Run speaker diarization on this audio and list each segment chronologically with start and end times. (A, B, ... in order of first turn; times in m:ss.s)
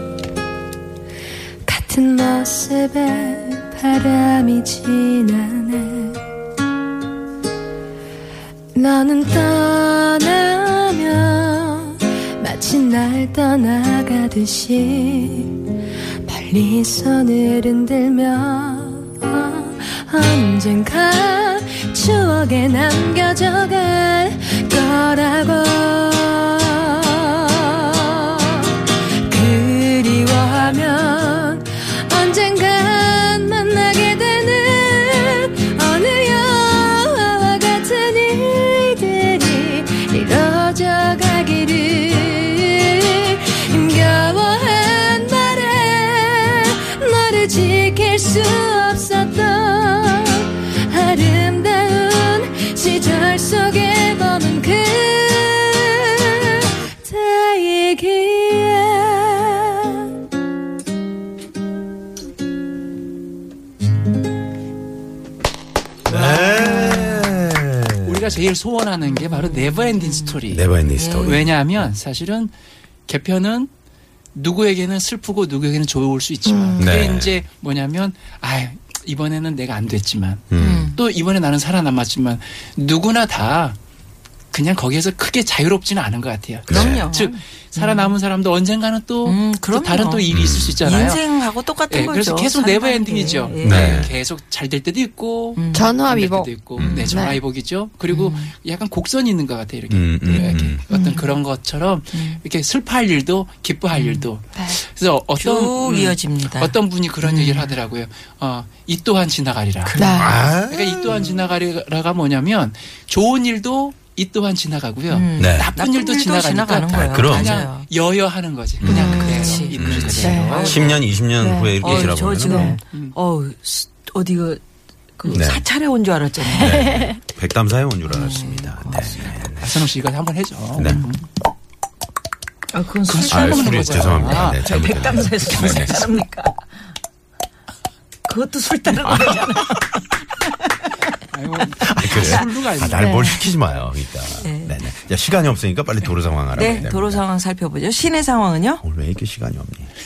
0:01.7-0:06.2 A
0:08.7-0:15.7 A
0:16.2-1:00.0 A
1:06.1-1:08.4 B
1:06.1-1:07.0 C
1:08.0-1:12.5 D
1:09.1-1:10.4 C
1:10.5-1:11.5 B
1:11.0-1:11.5 C
1:13.1-1:13.7 D
1:14.4-1:23.8 D
1:16.5-1:16.8 A
1:16.8-1:17.4 B
1:20.5-1:20.9 B
1:20.6-1:21.0 C
1:24.5-1:50.0 D
1:26.7-1:27.1 B
1:26.7-1:28.2 C
1:29.2-1:34.1 C
1:30.3-1:30.8 B
1:33.6-1:34.1 B
1:35.6-1:36.0 C
1:35.7-1:37.4 A
1:36.8-1:37.2 B
1:36.8-1:37.4 C
1:38.1-1:38.5 C
1:39.9-1:40.8 B
1:40.9-1:41.3 C
1:42.1-1:42.4 C
1:44.0-1:44.3 C
1:45.4-1:47.7 C
1:49.9-1:50.3 C
1:50.0-1:50.4 A
1:50.0-1:51.4 B
1:50.7-2:01.0 D
1:55.1-1:57.9 C
1:55.4-1:55.7 B
1:56.9-1:57.6 B
1:58.8-2:02.8 B
1:58.9-2:01.0 C
1:58.9-1:59.6 A
2:00.2-2:00.7 A
2:01.4-2:01.8 A
2:01.8-2:04.6 C
2:01.9-2:03.2 D
2:02.4-2:02.8 A
2:05.2-2:07.0 C
2:05.3-2:05.6 B
2:06.6-2:09.7 B
2:06.8-2:07.1 A
2:08.1-2:09.3 C
2:09.6-2:11.3 D
2:10.8-2:11.1 B
2:12.7-2:16.6 C
2:13.1-2:16.1 D
2:13.3-2:16.0 B
2:18.3-2:20.5 C
2:19.0-2:19.5 B
2:21.3-2:23.5 D
2:21.8-2:27.2 B
2:22.1-2:23.4 C
2:24.4-2:24.8 C
2:26.5-2:28.8 C
2:26.6-2:26.9 D
2:28.8-2:29.9 B